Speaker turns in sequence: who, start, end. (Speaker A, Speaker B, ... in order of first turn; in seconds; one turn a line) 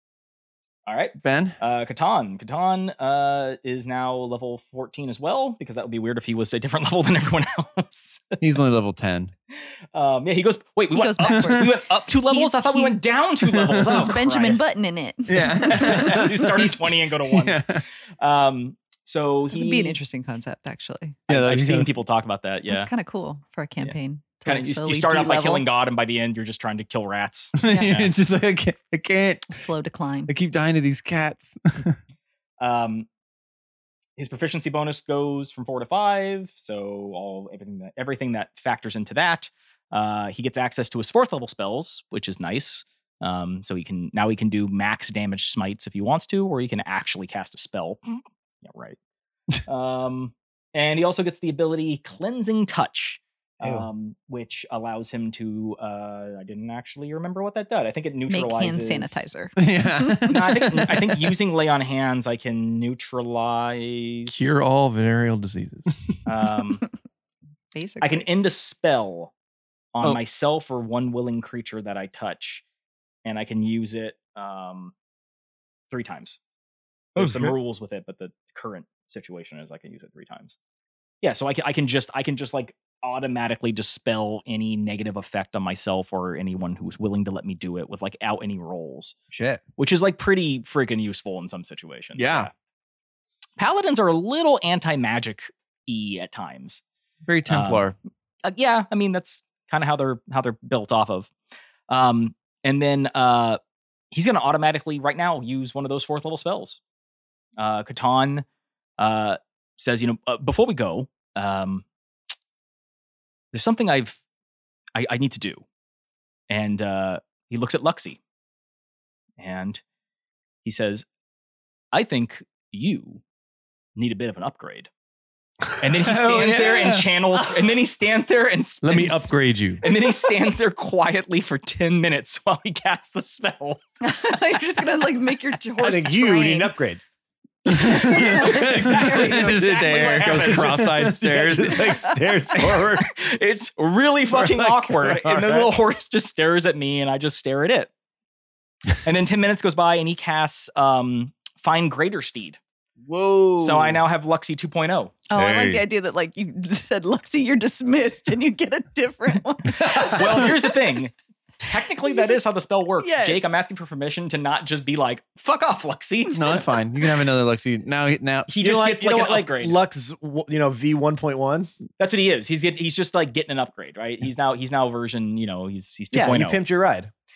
Speaker A: 0.9-8.4
Speaker B: 1.2-1.6
Speaker B: 8.4-9.3
Speaker A: 9.9-14.7
Speaker C: 10.9-13.0
Speaker B: 11.3-11.6
Speaker B: 13.4-14.1
Speaker C: 13.8-16.3
Speaker B: 15.3-17.8
Speaker A: 15.6-17.6
Speaker A: 18.2-20.0
Speaker C: 19.5-21.2
Speaker A: 21.3-22.9
Speaker B: 21.3-21.9
Speaker C: 22.7-25.6
Speaker A: 23.8-28.1
Speaker B: 27.6-29.7
Speaker C: 27.6-27.9
Speaker C: 29.5-30.3
Speaker B: 30.3-32.0
Speaker A: 32.6-33.1
Speaker A: 34.2-48.0
Speaker A: 48.6-49.0
Speaker A: 49.7-59.3
Speaker B: 53.6-53.9
Speaker C: 58.3-60.8
Speaker B: 59.6-61.3
Speaker A: 60.3-64.6
Speaker D: 64.3-66.1
Speaker A: 66.3-66.8
Speaker C: 67.7-68.3
Speaker A: 68.0-69.3
Speaker A: 70.0-72.6
Speaker A: 73.2-74.9
Speaker A: 75.9-76.4
Speaker A: 77.2-80.6
Speaker B: 77.2-77.5
Speaker A: 81.2-89.2
Speaker B: 89.3-89.6
Speaker A: 89.8-92.5
Speaker B: 92.2-92.5
Speaker A: 93.6-96.8
Speaker B: 97.3-98.0
Speaker A: 97.5-97.9
Speaker A: 98.4-101.3
Speaker A: 101.9-103.6
Speaker A: 104.1-106.8
Speaker A: 107.6-108.5
Speaker A: 109.0-111.9
Speaker A: 113.5-114.2
Speaker A: 115.0-115.7
Speaker A: 116.5-118.2
Speaker A: 119.4-119.8
Speaker A: 120.6-121.1
Speaker A: 121.9-123.2
Speaker A: 124.0-124.9
Speaker A: 125.8-133.8
Speaker B: 126.0-127.1
Speaker D: 128.8-129.8
Speaker C: 134.0-136.7
Speaker E: 135.8-137.0
Speaker C: 137.7-139.8
Speaker B: 137.7-141.9
Speaker A: 137.8-141.2
Speaker D: 140.0-141.8
Speaker E: 141.2-143.2
Speaker C: 141.9-142.4
Speaker A: 142.5-147.9
Speaker E: 144.3-145.8
Speaker A: 149.0-152.6
Speaker B: 153.1-154.0
Speaker A: 153.6-155.2
Speaker C: 155.3-160.8
Speaker B: 155.3-155.9
Speaker A: 159.7-166.7
Speaker B: 159.8-160.1
Speaker C: 162.0-162.4
Speaker C: 163.0-163.5
Speaker B: 166.3-168.5
Speaker A: 168.5-169.8
Speaker E: 168.6-171.7
Speaker A: 172.0-176.6
Speaker E: 176.1-177.1